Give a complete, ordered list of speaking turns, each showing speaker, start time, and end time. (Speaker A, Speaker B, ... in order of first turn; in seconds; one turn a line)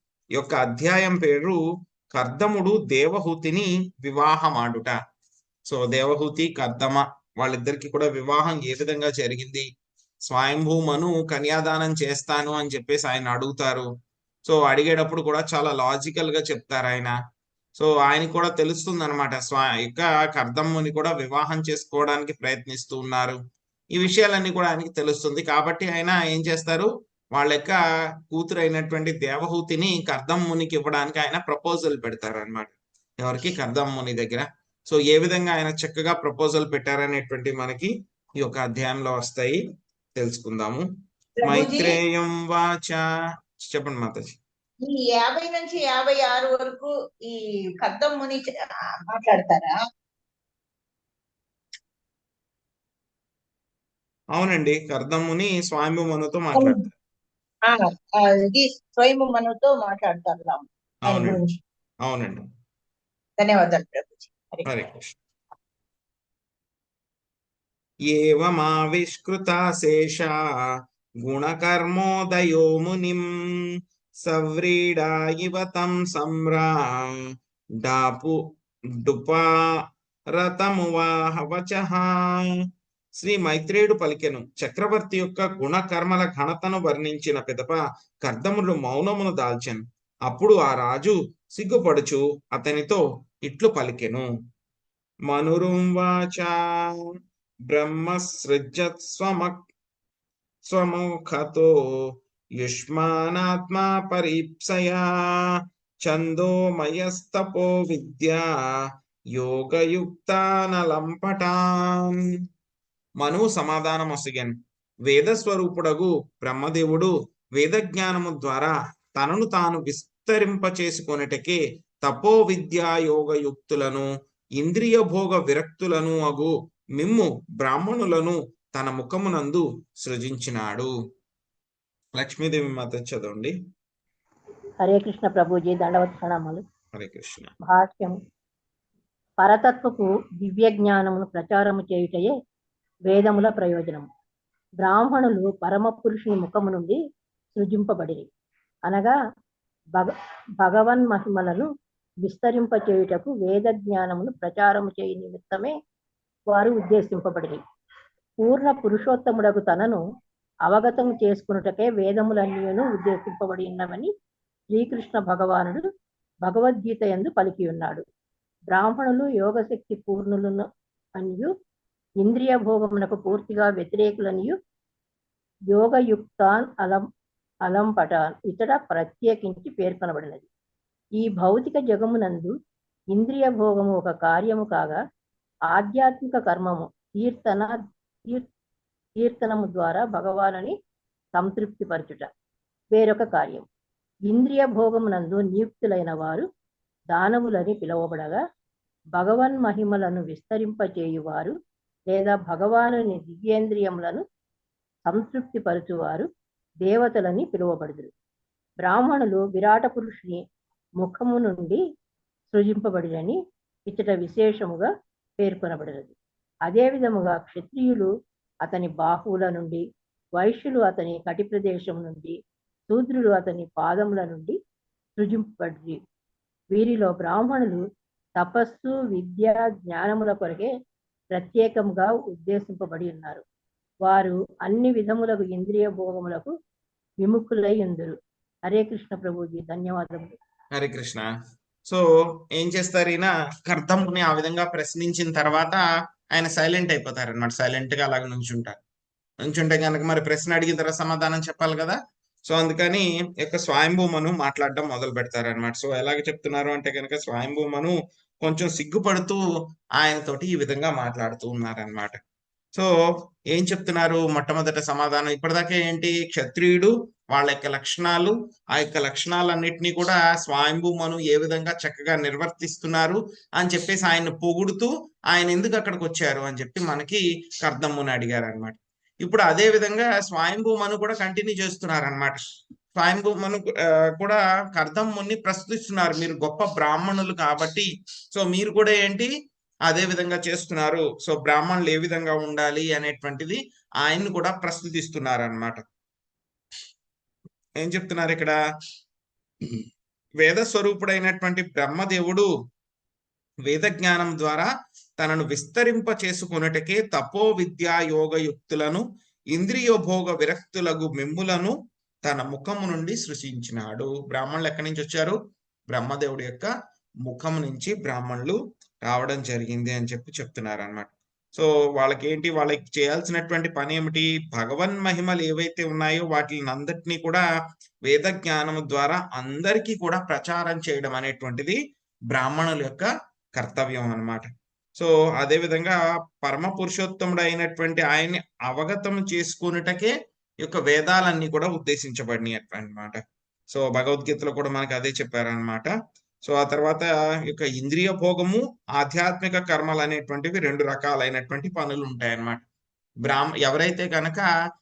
Speaker A: 0.3-1.6
Speaker A: 2.1-4.9
Speaker A: 5.7-9.7
Speaker A: 10.3-13.9
Speaker A: 14.5-17.1
Speaker A: 17.8-23.4
Speaker A: 23.9-39.6
Speaker A: 40.1-40.9
Speaker B: 41.4-42.0
Speaker A: 41.4-43.0
Speaker A: 43.6-44.4
Speaker B: 44.8-48.5
Speaker B: 49.1-49.8
Speaker A: 54.4-56.8
Speaker B: 56.5-56.8
Speaker B: 57.7-61.5
Speaker A: 61.1-61.4
Speaker A: 62.0-62.4
Speaker B: 63.4-64.6
Speaker A: 64.7-65.2
Speaker A: 68.1-70.3
Speaker A: 71.2-73.2
Speaker A: 74.2-77.1
Speaker A: 77.8-78.4
Speaker A: 79.0-79.5
Speaker A: 80.4-82.0
Speaker A: 83.2-94.3
Speaker A: 95.3-96.5
Speaker A: 97.7-99.6
Speaker A: 100.7-101.7
Speaker A: 102.6-105.0
Speaker A: 106.0-108.4
Speaker A: 109.3-111.6
Speaker A: 113.2-114.5
Speaker A: 115.1-124.1
Speaker A: 124.6-130.9
Speaker A: 132.2-133.5
Speaker C: 134.8-136.6
Speaker A: 136.9-137.5
Speaker C: 137.7-138.2
Speaker C: 139.4-142.3
Speaker C: 143.1-144.1
Speaker C: 144.8-147.0
Speaker C: 147.5-148.3
Speaker C: 148.9-149.1
Speaker C: 150.6-151.7
Speaker C: 152.2-155.7
Speaker C: 156.5-157.6
Speaker C: 158.4-160.0
Speaker C: 160.7-164.1
Speaker C: 164.7-165.8
Speaker C: 166.4-168.0
Speaker C: 168.7-170.7
Speaker C: 171.2-171.5
Speaker C: 172.2-174.5
Speaker C: 175.7-177.0
Speaker C: 177.7-180.5
Speaker C: 181.2-182.5
Speaker C: 183.1-185.0
Speaker C: 185.7-187.8
Speaker C: 189.2-190.7
Speaker C: 191.3-192.3
Speaker C: 192.9-193.7
Speaker C: 194.3-196.4
Speaker C: 197.1-198.4
Speaker C: 199.2-201.5
Speaker C: 202.1-204.2
Speaker C: 205.1-206.3
Speaker C: 206.8-208.1
Speaker C: 208.8-210.4
Speaker C: 211.0-211.8
Speaker C: 212.5-214.9
Speaker C: 215.4-216.1
Speaker C: 216.7-218.1
Speaker C: 218.7-219.8
Speaker C: 220.4-222.3
Speaker C: 222.9-224.5
Speaker C: 225.2-226.0
Speaker C: 226.7-227.8
Speaker C: 228.4-230.7
Speaker C: 231.3-233.4
Speaker C: 234.0-236.5
Speaker C: 237.2-238.1
Speaker C: 238.7-240.3
Speaker A: 240.7-241.3
Speaker A: 242.5-245.8
Speaker A: 246.3-248.8
Speaker A: 249.4-252.0
Speaker A: 252.5-259.4
Speaker A: 260.0-262.2
Speaker A: 263.5-282.4
Speaker A: 282.9-289.3
Speaker A: 289.9-295.8
Speaker A: 297.8-298.6
Speaker A: 300.4-302.5
Speaker A: 303.7-304.7
Speaker A: 305.2-315.4
Speaker A: 315.9-316.7
Speaker A: 317.2-327.4
Speaker A: 328.1-331.8
Speaker A: 332.3-345.9
Speaker A: 346.4-352.6
Speaker A: 353.2-354.5